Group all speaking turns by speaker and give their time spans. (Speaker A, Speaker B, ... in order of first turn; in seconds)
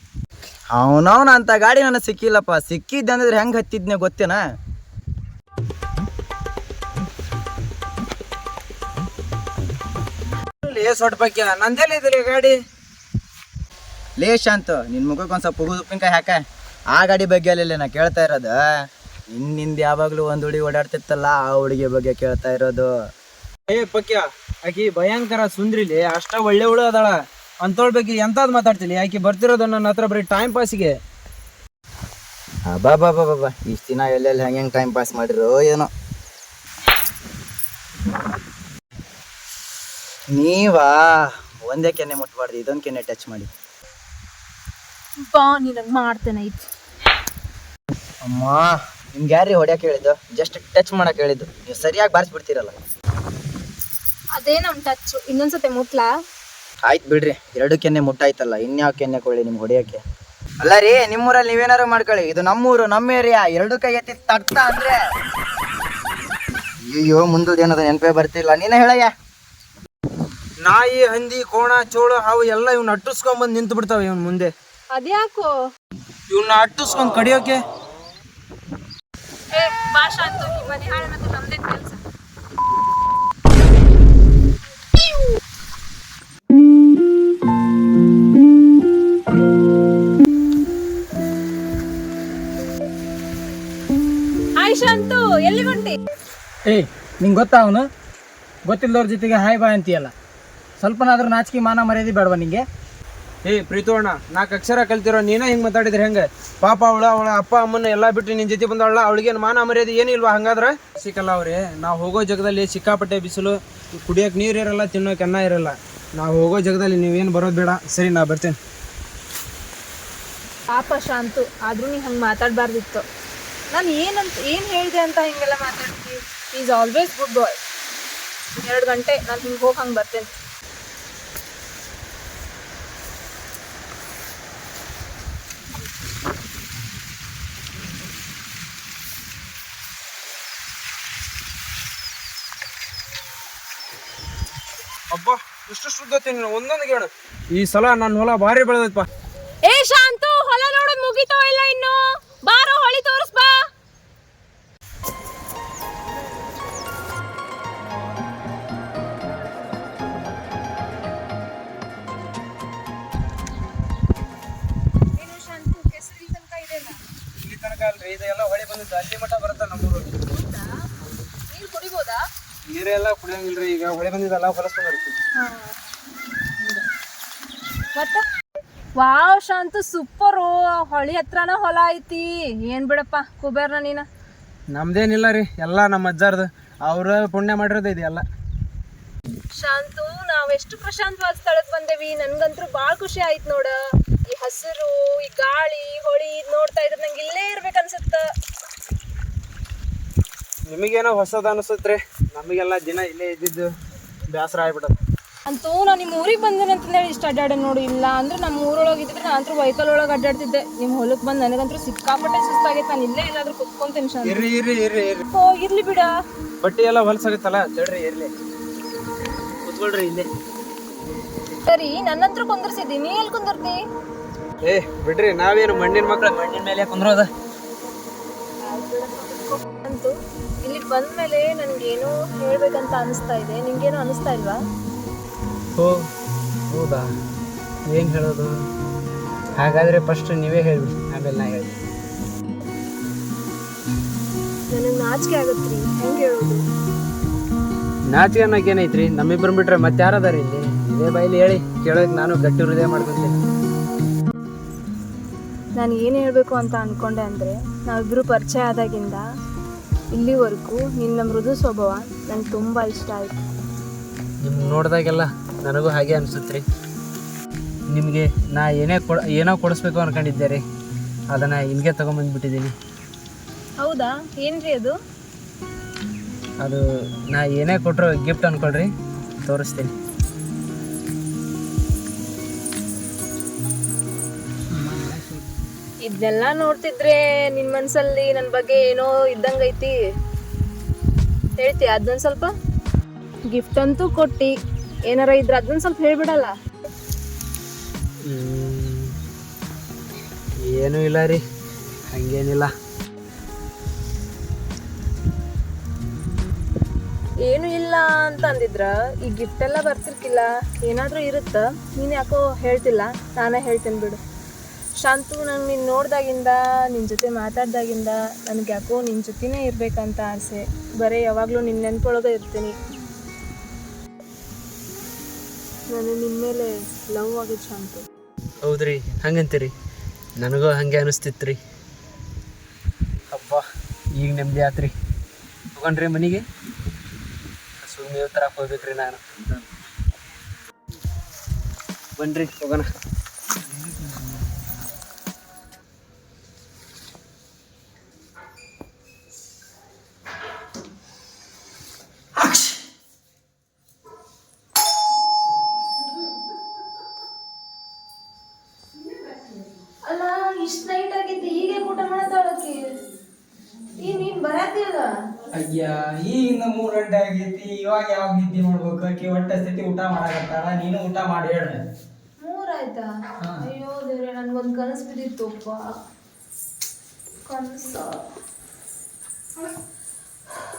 Speaker A: 0.7-4.4, 14.2-16.4, 16.9-18.6, 19.3-22.9, 32.7-35.9, 40.3-43.5, 48.2-52.8, 56.9-60.0, 60.6-65.0, 66.9-69.1
Speaker B: 10.6-12.6, 23.7-31.0, 70.6-74.5, 76.3-77.6, 103.4-118.6, 145.1-149.1, 167.4-170.2, 172.7-175.2, 184.7-188.2, 200.7-203.7, 204.3-205.0, 214.2-215.2, 216.6-218.3, 219.6-220.3, 224.6-227.3, 235.8-236.1, 236.7-237.1, 237.9-238.6, 239.6-241.8, 248.1-253.4, 264.4-266.6, 267.9-270.6, 271.3-272.7, 276.6-278.9, 279.4-279.9, 298.3-299.2, 300.6-301.4, 302.1-302.7, 328.6-329.7, 330.4-331.6, 333.3-333.6, 334.2-334.9, 335.8-336.4, 337.8-339.2, 342.2-342.9
Speaker C: 45.3-46.7, 54.3-56.1, 74.9-75.5, 79.5-82.0, 94.6-96.0, 120.7-123.0, 123.7-127.6, 128.6-130.3, 149.7-153.6, 165.1-167.0, 170.3-170.8, 171.5-172.2, 175.3-175.8, 177.9-178.2, 179.0-184.1, 189.6-193.8, 194.3-198.2, 205.5-214.4, 215.3-216.1, 221.7-223.8, 228.6-230.1, 230.6-234.6, 244.7-246.6, 255.8-259.2, 260.1-263.4, 273.8-274.9, 286.0-289.9, 291.6-292.5, 293.5-294.5, 295.1-296.5, 307.5-314.2, 315.0-322.7, 325.9-328.0, 360.1-362.9, 364.0-365.1, 372.4-375.8, 377.4-378.2
Speaker D: 96.7-97.9, 98.7-100.1, 100.8-102.6, 284.7-285.5, 343.7-344.2, 352.4-352.8, 365.5-371.8